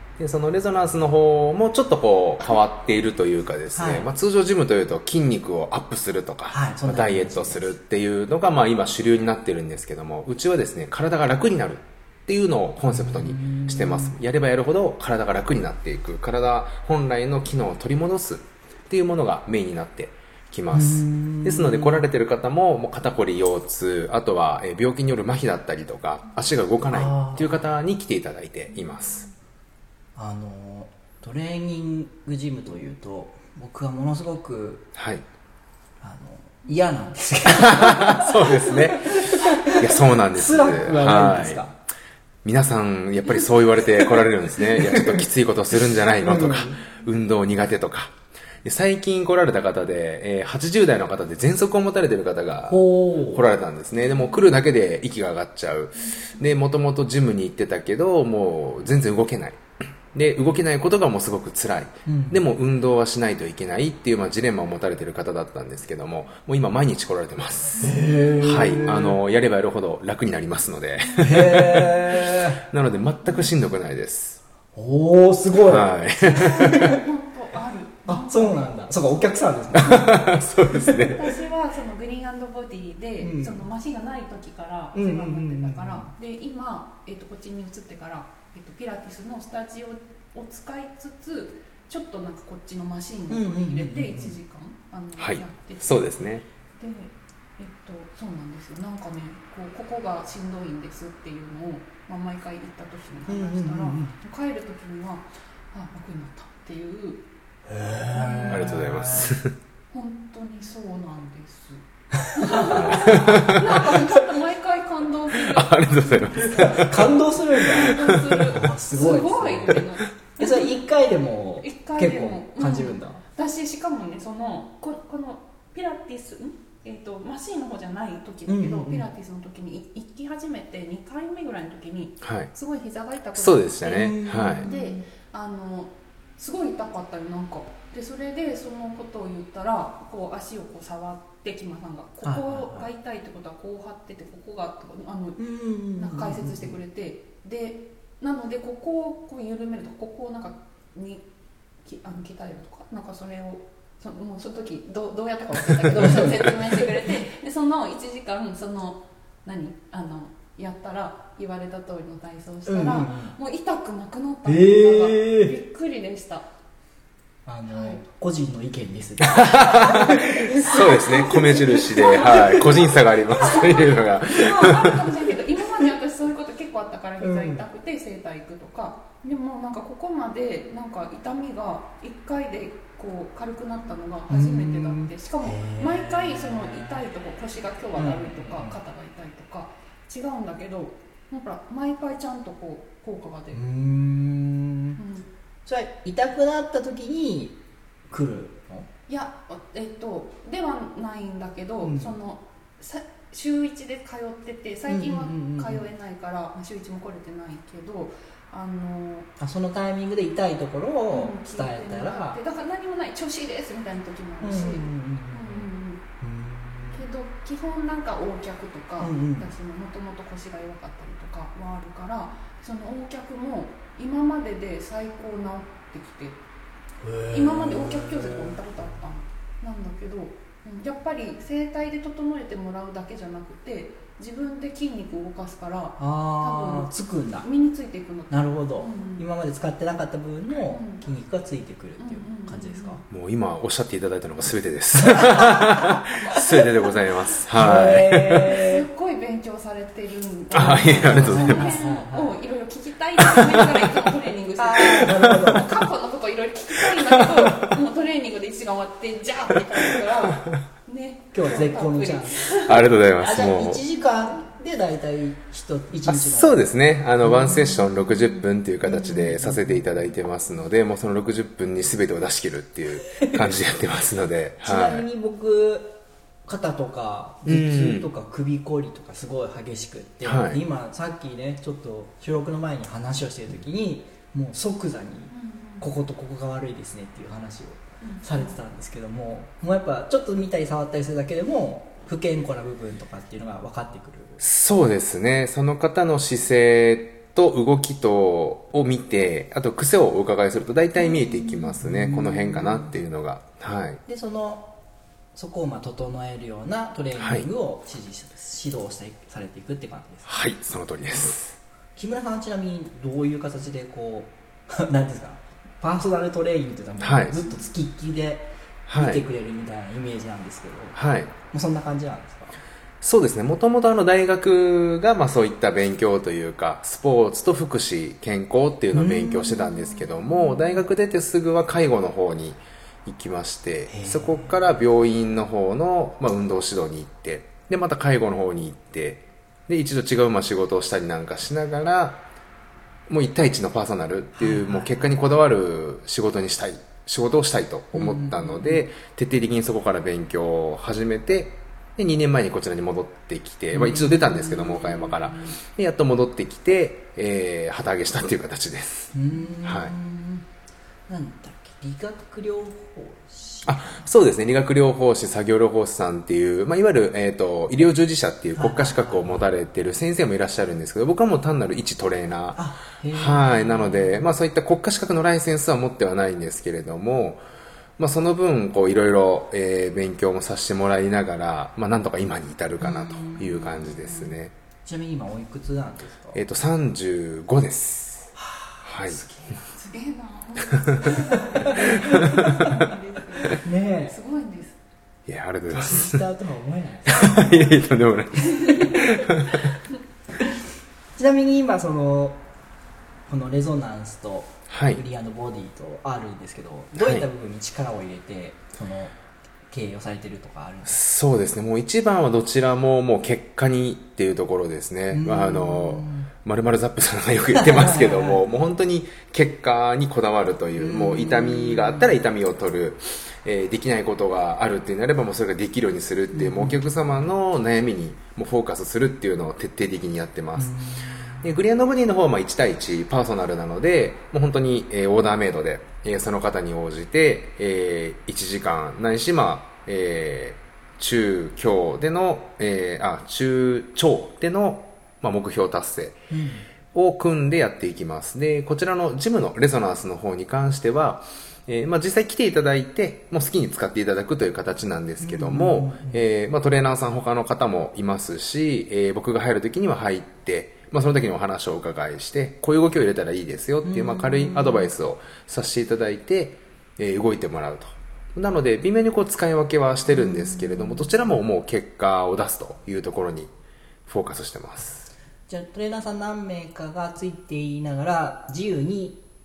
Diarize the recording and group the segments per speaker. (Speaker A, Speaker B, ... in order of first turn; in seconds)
Speaker A: 0.2-29.3, 35.0-35.2, 37.5-41.7, 42.4-59.6, 60.1-74.4, 75.6-76.9, 79.7-81.3, 95.2-96.4, 108.5-109.5, 112.7-113.8, 115.5-118.4, 132.2-132.5, 133.3-134.7, 169.3-175.0, 243.1-248.6, 250.5-251.7, 255.0-255.6, 262.7-263.8, 266.1-275.1, 277.4-278.1, 280.2-280.6, 294.4-304.0, 307.2-307.5, 310.2-311.6, 317.0-317.4, 318.9-319.2, 320.9-321.3, 323.0-342.2, 343.1-359.9, 363.6-377.4, 378.0-384.5, 386.3-389.2, 392.1-392.5, 395.3-396.2, 397.1-399.7, 404.7-405.0, 406.9-407.2, 410.9-430.8, 431.4-446.2, 446.9-473.5, 474.1-475.1
Speaker B: 3.7-4.1, 6.5-7.7, 12.9-14.2, 20.7-22.1, 26.9-27.7, 30.1-34.9, 36.0-41.7, 44.1-45.3, 46.2-46.8, 52.7-53.5, 62.1-62.4, 67.8-69.2, 71.2-72.6, 74.7-75.9, 76.7-76.9, 78.0-81.2, 83.2-83.6, 84.9-86.1, 93.3-94.4, 103.3-104.1, 107.7-109.3, 112.5-113.6, 116.5-119.8, 120.4-123.2, 128.5-129.1, 133.9-135.1, 142.2-142.9, 145.4-146.8, 155.8-156.9, 162.7-163.3, 164.4-165.5, 167.4-172.8, 177.2-177.6, 184.3-187.1, 187.9-188.8, 193.5-195.0, 195.7-198.9, 201.8-202.2, 204.9-205.9, 209.4-212.4, 214.4-215.7, 216.2-217.0, 219.0-219.5, 227.0-228.6, 236.0-237.5, 238.3-243.0, 245.1-246.0, 247.5-248.8, 250.6-252.3, 254.6-255.7, 261.3-266.7, 267.2-267.9, 268.8-269.9, 273.1-273.5, 274.6-294.4, 301.0-302.9, 304.1-304.7, 305.3-310.3, 311.9-322.5, 328.9-330.8, 333.9-334.6, 344.4-345.1, 347.9-348.9, 353.7-355.6, 359.1-360.5, 361.1-364.1, 368.5-369.4, 372.5-374.3, 382.8-386.4, 388.4-389.6, 391.5-392.7, 393.5-394.1, 395.7-397.7, 401.1-402.4, 403.3-409.1, 409.7-411.0, 415.1-416.3, 417.5-418.4, 420.8-422.1, 426.3-427.3, 430.6-431.5, 446.3-446.6, 455.2-456.2, 463.8-464.9, 470.1-471.3, 475.5-479.2
Speaker C: 56.0-56.3, 67.8-68.3, 76.1-78.8, 81.0-96.2, 96.8-107.2, 108.1-108.9, 109.9-120.8, 121.6-151.2, 151.8-166.5, 167.7-168.0, 170.9-172.9, 173.4-193.6, 194.9-195.3, 199.1-209.3, 211.1-216.0, 216.9-226.4, 227.3-239.3, 240.7-241.0, 242.0-243.0, 248.6-262.9, 285.3-285.9, 288.0-288.6, 389.6-394.8